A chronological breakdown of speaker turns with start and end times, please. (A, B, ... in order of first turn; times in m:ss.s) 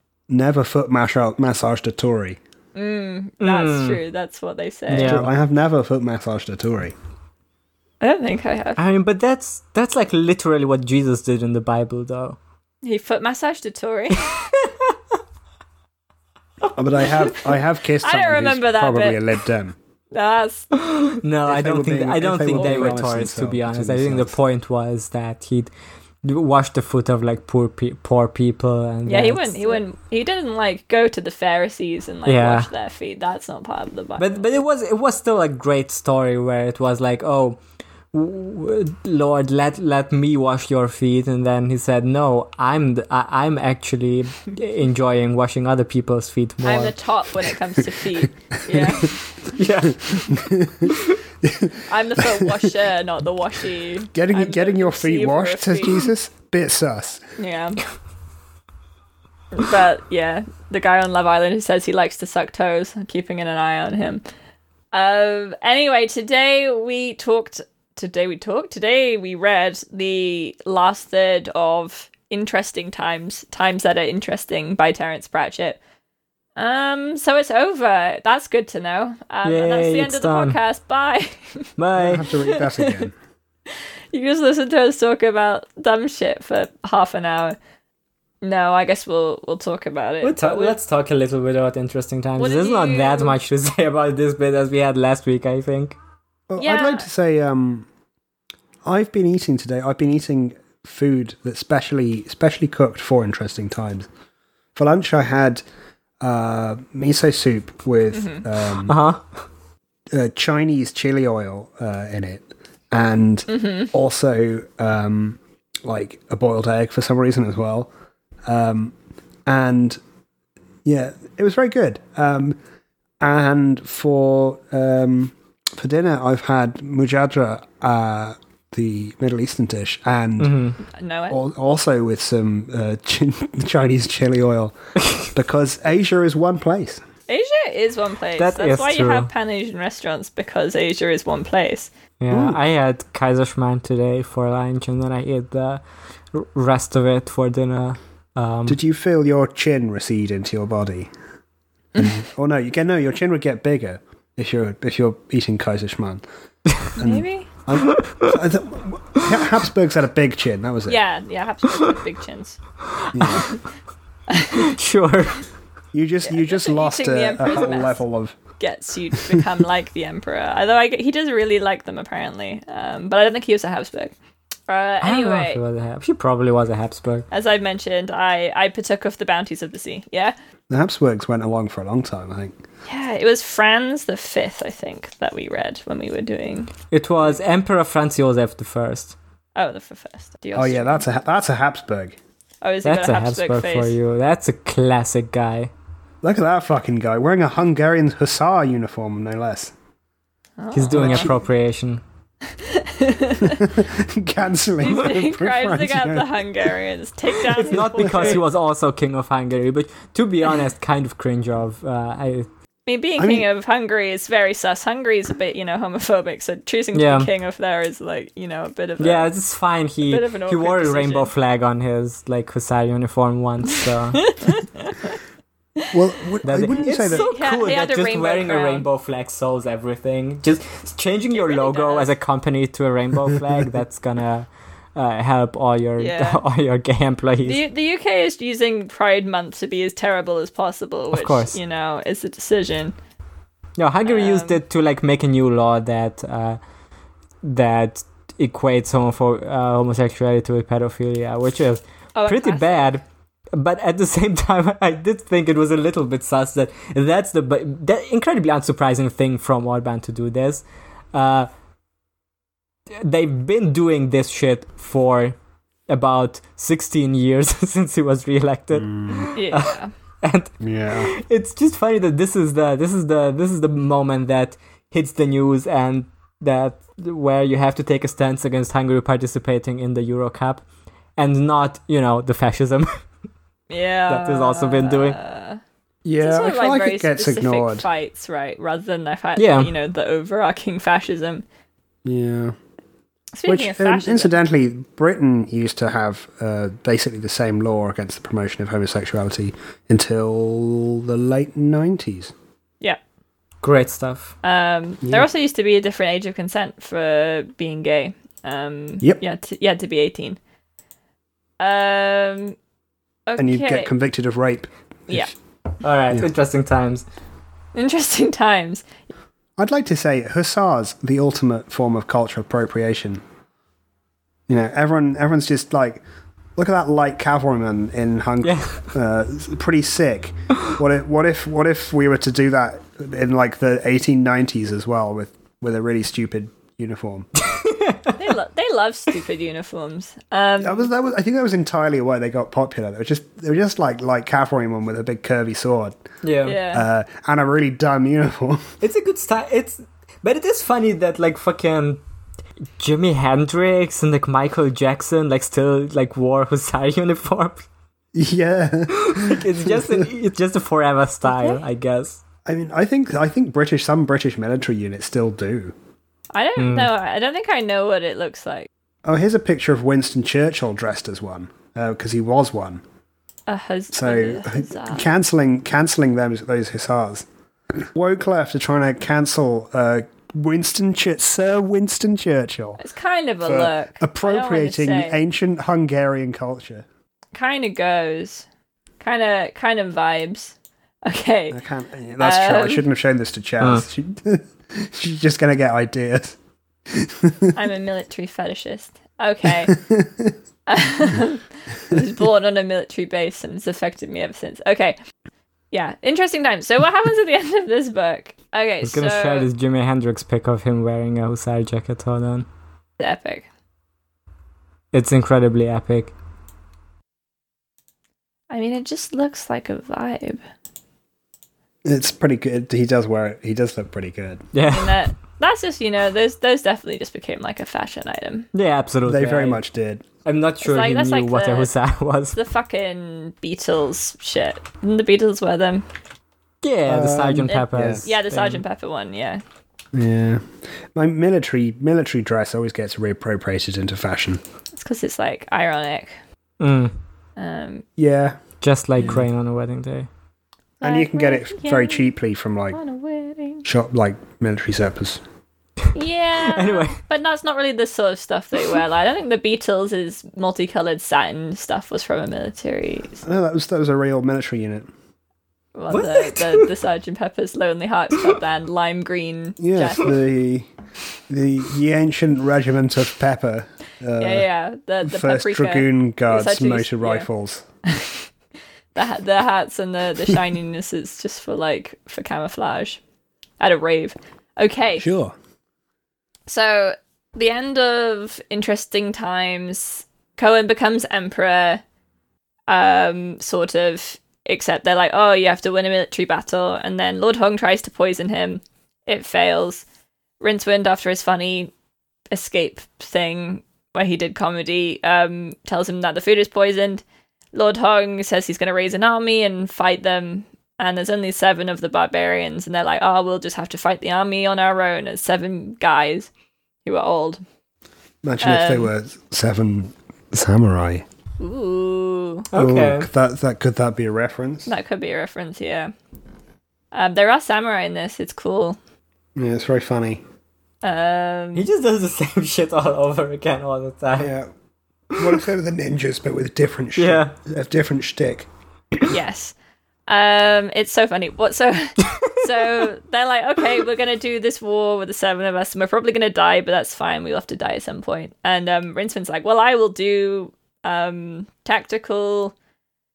0:00.3-0:02.4 A
0:02.8-0:05.2 B
0:03.4-0:04.0 C
0:04.9-0:05.3 C
0:05.0-0:07.0 A
0:08.0-0:08.8 B
0:08.8-0:12.4 C
0:12.8-0:14.3 B
0:16.7-0:19.8 A
0:18.0-0:19.2 B
0:20.1-0:20.7 B
0:20.9-0:25.7 C
0:21.5-0:24.3 A
0:22.6-0:22.9 B
0:26.2-0:29.8 C
0:29.1-0:34.4 B
0:32.3-0:32.7 C
0:34.2-0:37.6 C
0:38.1-0:47.0 C
0:46.6-0:49.2 B
0:49.5-0:51.2 C
0:50.3-0:50.9 A
0:51.4-0:52.6 A
0:51.8-0:56.1 B
0:54.1-0:57.2 A
0:57.4-0:57.8 B
0:59.5-1:04.2 B
1:04.9-1:15.8 B
1:16.6-1:21.7 B
1:19.4-1:20.6 C
1:21.8-1:22.3 C
1:22.0-1:23.1 A
1:22.5-1:22.9 B
1:24.1-1:27.6 B
1:28.4-1:30.8 B
1:30.2-1:36.0 C
1:32.4-1:33.4 B
1:36.5-1:37.9 A
1:36.6-1:37.1 B
1:38.8-1:44.1 A
1:44.8-1:45.6 A
1:46.2-1:49.0 A
1:48.1-1:48.4 B
1:48.9-1:49.2 C
1:50.1-1:57.9 A
1:53.5-1:53.9 B
1:58.5-1:59.0 A
1:59.5-2:00.0 A
2:00.8-2:02.6 A
2:03.2-2:10.6 A
2:10.4-2:10.8 C
2:10.9-2:11.4 B
2:11.3-2:14.8 A
2:15.3-2:17.0 A
2:17.3-2:21.9 B
2:18.4-2:19.3 C
2:22.2-2:25.8 C
2:22.3-2:22.6 A
2:26.3-2:28.8 C
2:28.7-2:31.1 A
2:32.0-2:36.2 A
2:37.0-2:41.0 A
2:37.0-2:37.5 B
2:40.9-2:42.6 B
2:43.1-2:43.5 A
2:43.2-2:43.5 C
2:44.3-2:44.6 B
2:44.5-2:45.4 C
2:45.9-2:48.4 A
2:46.2-2:48.0 B
2:48.6-2:54.1 B
2:54.7-2:55.6 B
2:55.0-2:57.3 C
2:57.3-3:00.4 B
3:00.7-3:02.6 A
3:02.9-3:06.7 B
3:06.9-3:09.2 C
3:09.6-3:11.0 B
3:10.6-3:12.2 A
3:12.6-3:13.9 B
3:12.8-3:15.7 C
3:16.2-3:19.7 A
3:20.6-3:21.3 B
3:20.7-3:22.0 C
3:21.0-3:21.4 A
3:22.5-3:23.6 B
3:23.4-3:26.7 A
3:24.8-3:28.4 B
3:27.7-3:32.5 C
3:27.7-3:28.4 A
3:32.9-3:39.3 B
3:33.2-3:33.4 A
3:36.9-3:37.3 C
3:39.0-3:44.4 C
3:40.0-3:41.3 B
3:44.3-3:45.2 B
3:45.9-3:47.3 A
3:46.4-3:57.6 C
3:47.1-3:48.9 B
3:51.3-3:52.1 B
3:56.0-3:56.4 B
3:57.4-4:03.0 B
4:01.1-4:01.6 C
4:03.8-4:06.6 C
4:04.0-4:04.6 B
4:07.4-4:21.5 C
4:12.2-4:12.9 B
4:22.9-4:25.4 C
4:25.9-4:40.6 C
4:28.8-4:29.3 A
4:29.3-4:29.9 B
4:30.6-4:31.1 A
4:41.2-4:43.0 C
4:43.7-4:45.6 B
4:44.1-4:45.2 C
4:46.0-4:47.9 A
4:46.2-4:51.4 B
4:49.4-4:49.7 C
4:52.0-4:52.6 A
4:53.3-4:54.4 B
4:53.5-5:02.3 A
5:03.6-5:04.4 C
5:04.4-5:10.4 B
5:11.6-5:12.6 B
5:13.3-5:13.9 B
5:13.4-5:15.3 A
5:15.8-5:17.0 C
5:17.8-5:18.9 B
5:19.6-5:23.2 A
5:24.5-5:26.0 A
5:26.6-5:37.3 A
5:28.4-5:28.9 C
5:37.4-5:38.2 C
5:38.2-5:40.9 B
5:40.6-5:46.0 A
5:46.2-5:46.6 C
5:46.4-5:46.8 B
5:46.7-5:48.6 A
5:48.8-5:52.0 C
5:52.8-5:57.6 C
5:58.1-6:00.0 A
5:58.9-6:02.2 C
6:01.3-6:01.6 B
6:02.5-6:05.8 A
6:06.3-6:08.7 B
6:06.6-6:06.9 C
6:09.0-6:12.8 A
6:13.5-6:15.1 B
6:13.9-6:22.8 A
6:22.8-6:25.2 B
6:23.4-6:26.9 A
6:27.3-6:28.5 B
6:29.0-6:31.6 B
6:31.5-6:36.4 A
6:32.2-6:32.8 B
6:36.9-6:37.5 A
6:37.5-6:39.8 B
6:39.7-6:40.3 A
6:40.7-6:45.0 B
6:45.7-6:49.5 B
6:48.8-6:52.5 C
6:53.0-6:53.5 B
6:54.9-6:56.1 C
6:58.5-7:00.4 B
7:01.8-7:04.4 A
7:04.5-7:05.1 C
7:04.7-7:08.5 B
7:08.5-7:09.6 C
7:09.0-7:10.0 A
7:10.2-7:12.4 C
7:10.6-7:11.7 B
7:12.3-7:15.8 B
7:16.6-7:18.6 C
7:16.9-7:18.0 A
7:17.5-7:19.4 B
7:19.9-7:24.4 A
7:24.8-7:26.2 B
7:26.6-7:26.9 C
7:27.4-7:27.8 B
7:28.0-7:28.4 A
7:28.6-7:30.1 C
7:29.0-7:29.2 A
7:30.8-7:32.8 A
7:30.8-7:32.1 B
7:32.7-7:33.6 B
7:33.6-7:35.2 A
7:35.9-7:43.2 B
7:36.5-7:37.0 C
7:43.2-7:44.9 A
7:45.8-7:50.1 B
7:45.9-7:46.7 C
7:49.6-7:50.7 A
7:51.3-7:54.5 A
7:54.2-7:57.3 B
7:55.0-7:57.6 A
7:57.9-7:58.3 B
7:59.0-8:03.0 B
8:03.6-8:05.1 B
8:05.0-8:05.4 A
8:06.5-8:11.8 B
8:12.7-8:19.8 B
8:20.4-8:21.7 B
8:22.3-8:27.0 B
8:27.5-8:36.3 B
8:36.8-8:37.4 B
8:38.2-8:41.0 A
8:38.4-8:38.9 B
8:41.4-8:42.5 B
8:42.5-8:43.1 C
8:42.5-8:44.7 A
8:44.7-8:45.9 B
8:46.9-8:48.8 B
8:49.4-8:50.2 A
8:50.8-8:51.7 B
8:51.6-8:54.3 C
8:54.2-8:54.5 A
8:55.2-8:58.5 A
8:57.0-8:57.4 C
8:59.1-8:59.5 B
9:00.1-9:12.6 B
9:02.0-9:02.3 C